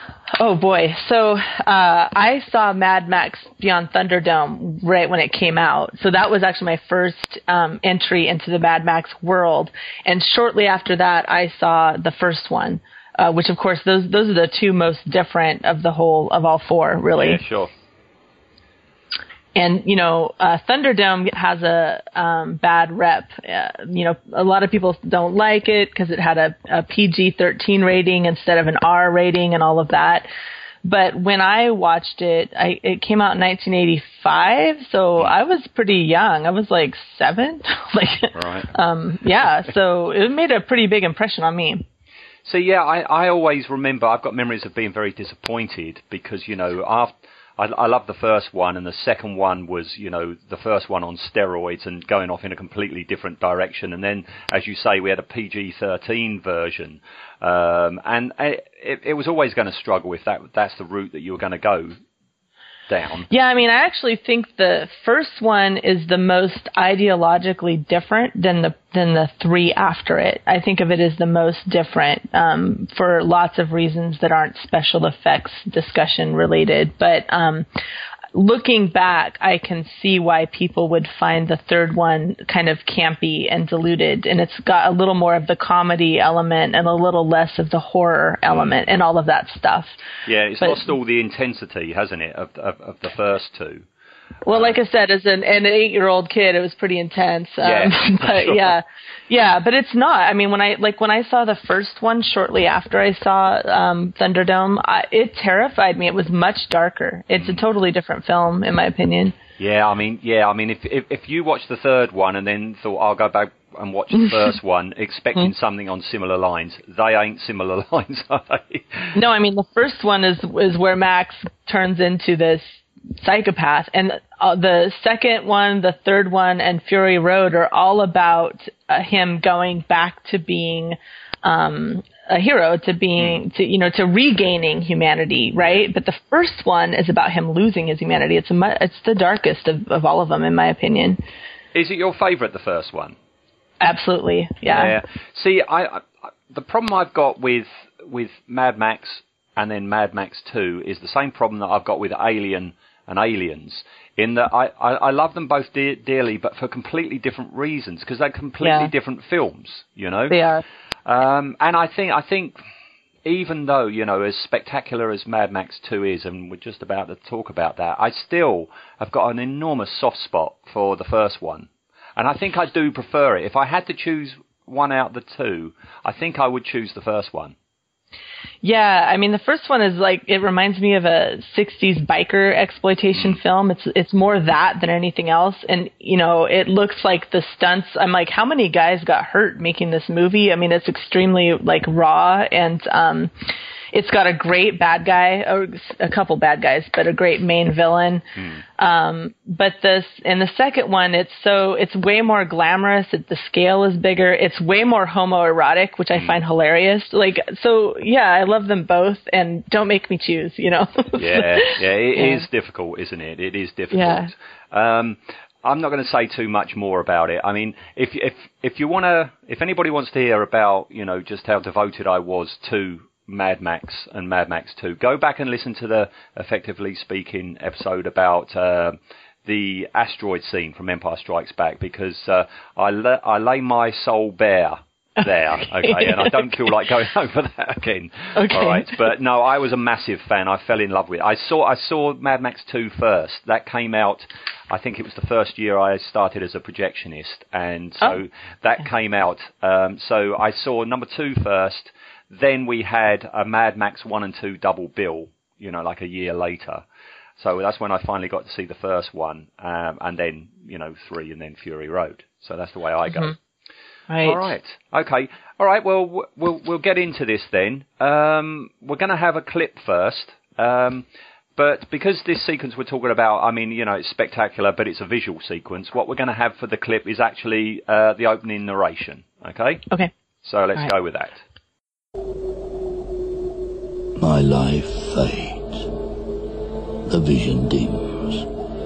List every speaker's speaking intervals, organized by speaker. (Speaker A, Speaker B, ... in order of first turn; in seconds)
Speaker A: 0.4-17.4, 19.5-30.3, 30.8-41.8, 63.3-77.7, 78.3-90.0, 90.6-90.9, 94.4-109.3, 119.1-141.2, 143.8-144.9, 158.6-158.9, 160.3-160.6, 178.6-198.2, 198.8-212.4, 213.9-214.3, 235.8-236.5, 238.3-238.9, 263.1-263.3, 264.1-264.4
Speaker B: 17.2-17.7, 38.3-38.7, 42.4-62.0, 62.9-63.3, 88.5-88.8, 90.2-93.8, 94.5-94.8, 97.6-98.7, 109.6-119.1, 141.7-143.2, 144.7-160.4, 161.1-162.6, 163.2-177.5, 198.4-198.6, 211.2-256.8, 257.4-263.3, 264.2-279.9, 280.4-281.4
Speaker C: 284.1-285.9, 287.1-288.5